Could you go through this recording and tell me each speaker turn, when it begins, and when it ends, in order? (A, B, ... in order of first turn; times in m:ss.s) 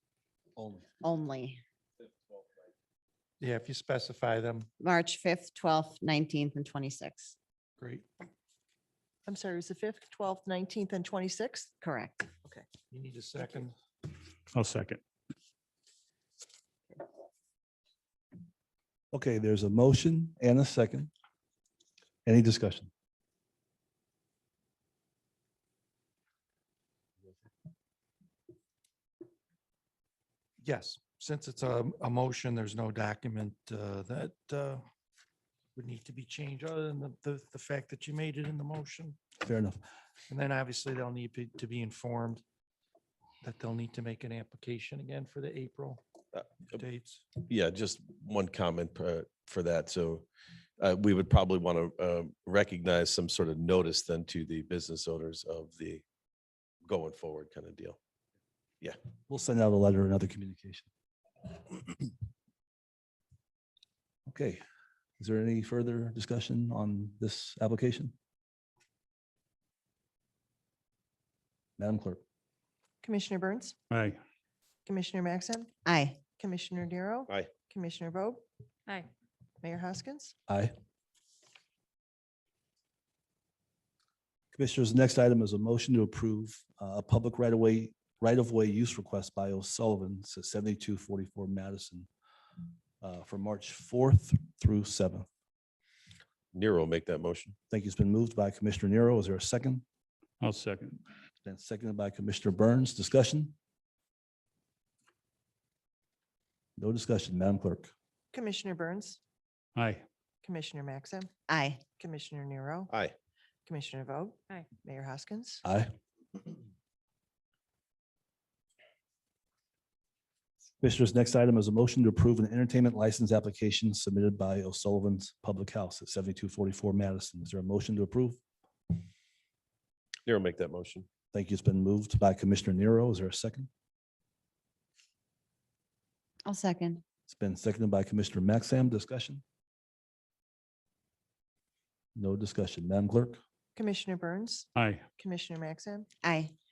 0:00.6-0:00.8 A
0:01.0-0:01.6 B
0:03.4-0:04.7 C
0:04.8-0:07.4 B
0:07.8-0:08.1 C
0:09.2-0:11.7 D
0:11.8-0:12.3 B
0:12.9-0:13.7 C
0:14.5-0:15.0 E
0:19.1-0:21.1 A
0:22.2-0:22.9 A
0:30.6-0:34.8 C
0:35.8-0:39.2 C
0:39.4-0:39.8 A
0:40.3-0:42.4 C
0:43.4-0:46.0 C
0:46.7-0:47.2 C
0:47.4-0:50.2 F
0:50.8-0:56.0 F
0:56.8-0:58.0 F
0:59.3-1:00.9 A
1:04.3-1:04.6 A
1:05.2-1:08.1 A
1:11.8-1:12.2 A
1:13.0-1:13.7 D
1:13.9-1:14.2 E
1:14.8-1:15.7 D
1:15.8-1:16.2 B
1:16.4-1:18.4 D
1:19.6-1:20.3 D
1:20.5-1:20.7 A
1:24.5-1:32.1 A
1:33.0-1:35.2 A
1:36.5-1:37.5 F
1:37.7-1:39.8 A
1:40.4-1:41.0 E
1:41.4-1:43.5 A
1:46.8-1:47.9 A
1:48.3-1:49.2 D
1:49.8-1:50.0 E
1:50.4-1:51.3 D
1:51.5-1:51.8 B
1:52.0-1:52.9 D
1:52.9-1:53.2 F
1:53.7-1:55.6 D
1:55.6-1:55.9 A
2:00.8-2:08.4 A
2:10.2-2:11.1 F
2:11.3-2:13.7 A
2:16.4-2:17.0 B
2:17.3-2:19.4 A
2:22.2-2:23.4 A
2:23.8-2:24.7 D
2:24.7-2:25.0 E
2:25.2-2:26.1 D
2:26.2-2:26.5 B